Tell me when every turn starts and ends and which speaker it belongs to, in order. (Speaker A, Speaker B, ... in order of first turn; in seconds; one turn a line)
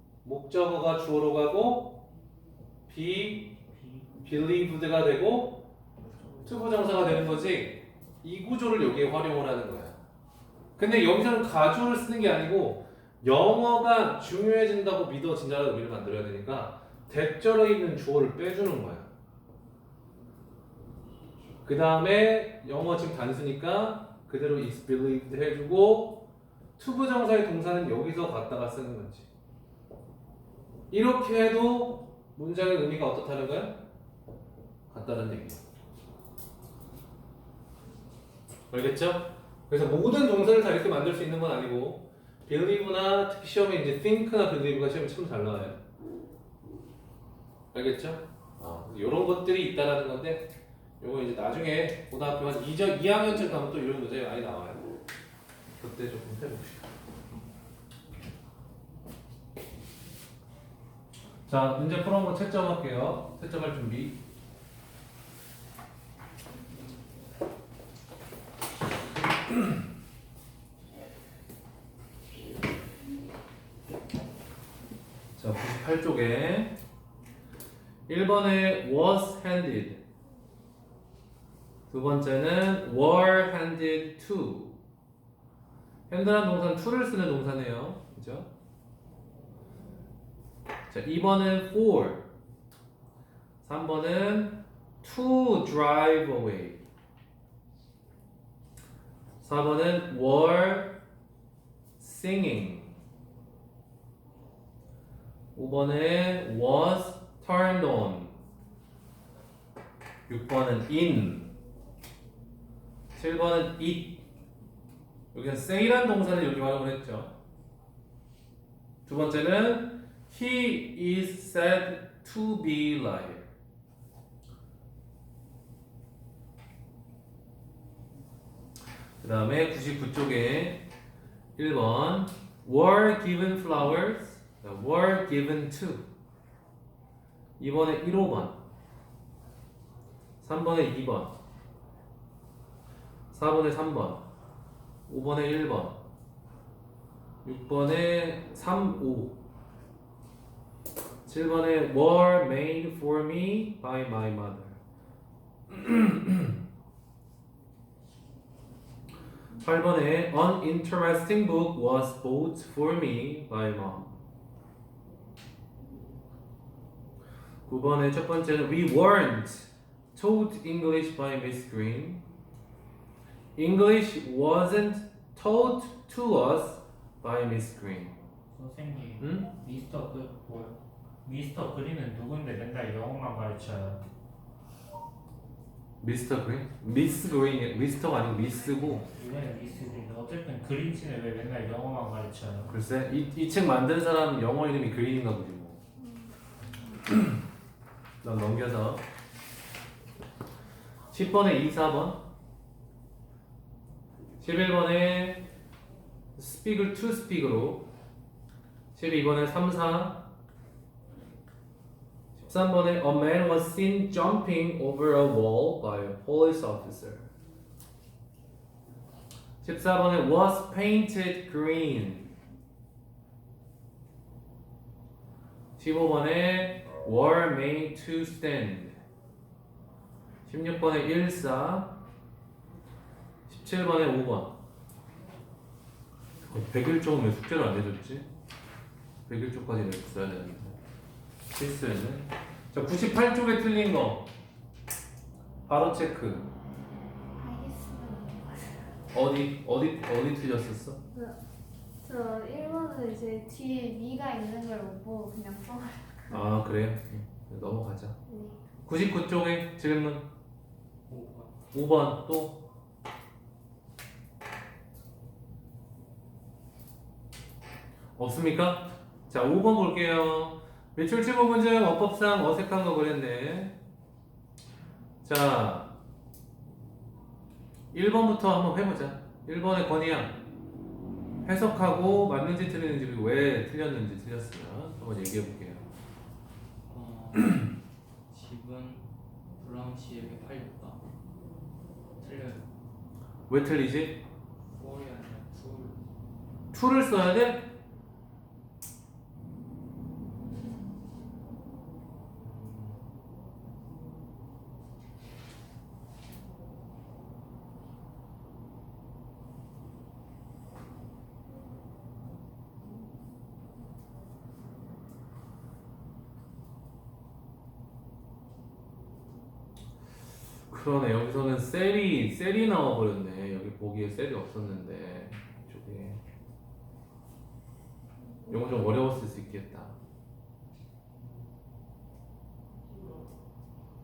Speaker A: 0.2-2.0
Speaker A: 2.9-3.5
Speaker B: 3.7-4.1
Speaker A: 4.2-5.7
Speaker B: 6.0-6.6
Speaker A: 6.5-10.0
Speaker A: 10.8-19.1
Speaker A: 21.6-26.2
Speaker A: 26.8-29.3
Speaker A: 30.9-33.8
Speaker A: 34.9-35.6
Speaker A: 38.7-45.8
Speaker A: 47.7-50.5
Speaker A: 51.0-54.9
Speaker A: 55.8-56.9
Speaker A: 61.5-64.2
Speaker A: 75.4-76.8
Speaker A: 78.1-80.0
Speaker A: 81.9-84.8
Speaker A: 86.1-88.5
Speaker A: 90.9-92.2
Speaker A: 93.6-96.8
Speaker A: 99.4-101.0
Speaker A: 102.0-102.9
Speaker A: 105.5-108.4
Speaker A: 110.3-111.5
Speaker A: 113.2-114.2
Speaker A: 115.3-117.3
Speaker A: 119.1-123.5
Speaker A: 129.2-130.8
Speaker A: 131.6-136.0
Speaker A: 137.6-138.6
Speaker A: 140.4-141.3
Speaker A: 143.3-144.2
Speaker A: 145.1-146.0
Speaker A: 147.4-149.4
Speaker A: 151.3-154.8
Speaker A: 155.7-156.6
Speaker A: 159.6-164.2
Speaker A: 167.7-172.2
Speaker A: 173.6-178.2
Speaker B: 178.5-184.0
Speaker A: 179.2-179.5
Speaker A: 186.0-189.1
Speaker B: 189.1-192.8
Speaker A: 192.7-195.8
Speaker C: 196.0-197.0
Speaker A: 197.1-197.4
Speaker A: 198.2-199.0
Speaker A: 201.1-202.2
Speaker A: 204.4-205.4
Speaker A: 206.4-207.9
Speaker A: 208.9-210.2
Speaker A: 212.4-217.3
Speaker A: 219.6-222.3
Speaker A: 225.8-229.0
Speaker A: 230.5-232.0
Speaker A: 233.5-234.5
Speaker A: 236.4-238.3
Speaker A: 239.3-240.8
Speaker A: 241.5-244.3
Speaker A: 245.7-246.5
Speaker C: 247.4-248.8
Speaker A: 249.1-251.0
Speaker C: 252.0-256.5
Speaker A: 256.3-258.1
Speaker C: 258.3-258.6
Speaker A: 258.9-260.3
Speaker D: 261.1-261.6
Speaker A: 261.7-262.6
Speaker A: 268.2-273.8
Speaker A: 275.2-275.9
Speaker A: 277.9-280.4
Speaker A: 281.4-285.9
Speaker D: 286.9-287.7
Speaker D: 288.3-289.1
Speaker D: 289.6-291.0
Speaker D: 292.2-292.6
Speaker A: 293.5-294.2
Speaker D: 294.7-296.0
Speaker A: 296.7-297.6
Speaker D: 302.4-303.0
Speaker A: 320.7-326.2
Speaker A: 328.5-329.9